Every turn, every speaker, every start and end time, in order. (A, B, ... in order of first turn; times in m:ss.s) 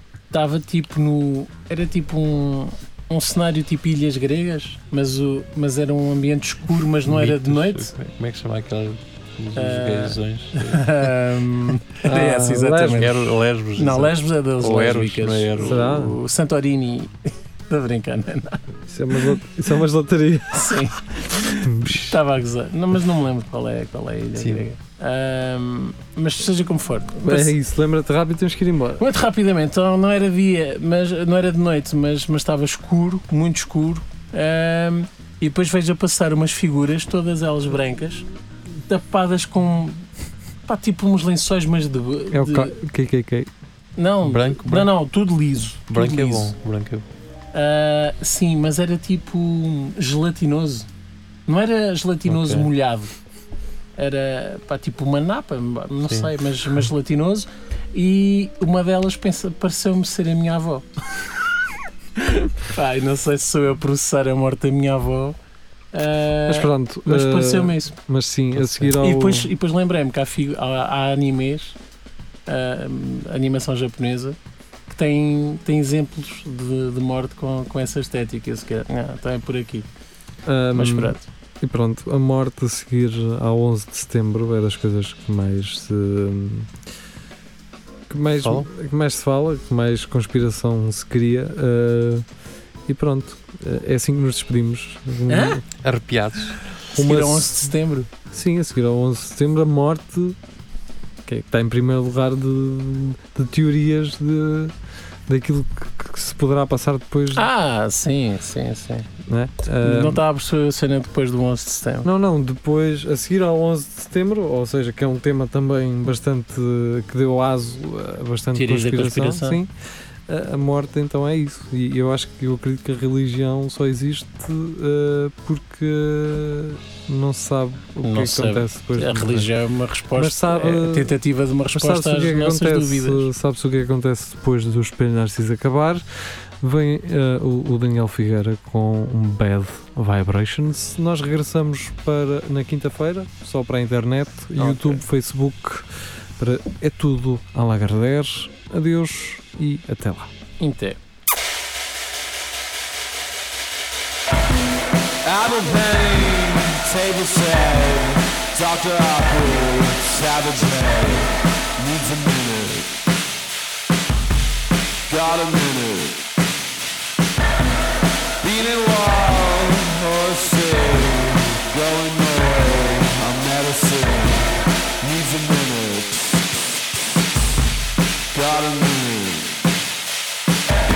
0:00.3-0:07.9 A
0:07.0-0:11.1 B
0:09.5-0:18.6 A
0:12.0-0:13.1 C
0:13.0-0:15.8 B
0:15.6-0:16.2 C
0:18.9-0:20.8 C
0:20.5-0:27.5 A
0:21.4-0:22.2 C
0:24.4-0:24.7 B
0:27.2-0:29.0 C
0:29.0-0:38.2 A
0:38.9-0:40.1 A
0:40.6-0:42.8 A
0:42.3-0:43.5 C
0:44.0-0:46.5 A
0:44.2-0:44.9 B
0:45.9-0:47.0 B
0:47.5-0:50.9 A
0:51.5-0:53.1 A
0:52.3-0:52.7 B
0:54.0-1:00.8 A
0:56.0-0:56.3 B
1:02.2-1:05.4 A
1:05.9-1:07.9 A
1:06.5-1:09.5 C
1:08.6-1:08.9 B
1:08.9-1:11.8 A
1:12.5-1:19.9 A
1:20.4-1:26.7 C
1:20.7-1:21.2 A
1:28.1-1:32.2 C
1:28.4-1:28.7 B
1:32.9-1:35.6 C
1:35.3-1:35.6 A
1:35.8-1:36.6 B
1:36.9-1:38.1 A
1:36.9-1:37.7 C
1:38.3-1:40.4 C
1:41.2-1:44.7 C
1:45.3-1:47.5 C
1:47.3-1:49.1 A
1:49.3-1:50.2 C
1:49.8-1:52.1 A
1:52.0-1:59.7 C
1:58.5-1:59.6 A
2:00.3-2:09.5 C
2:08.0-2:13.3 A
2:10.2-2:11.1 C
2:11.7-2:16.0 C
2:16.6-2:25.9 C
2:24.6-2:25.0 A
2:26.4-2:30.3 C
2:30.6-2:31.0 A
2:35.2-2:43.0 D
2:45.1-2:46.2 D
2:48.4-2:56.4 D
2:58.3-2:59.6 D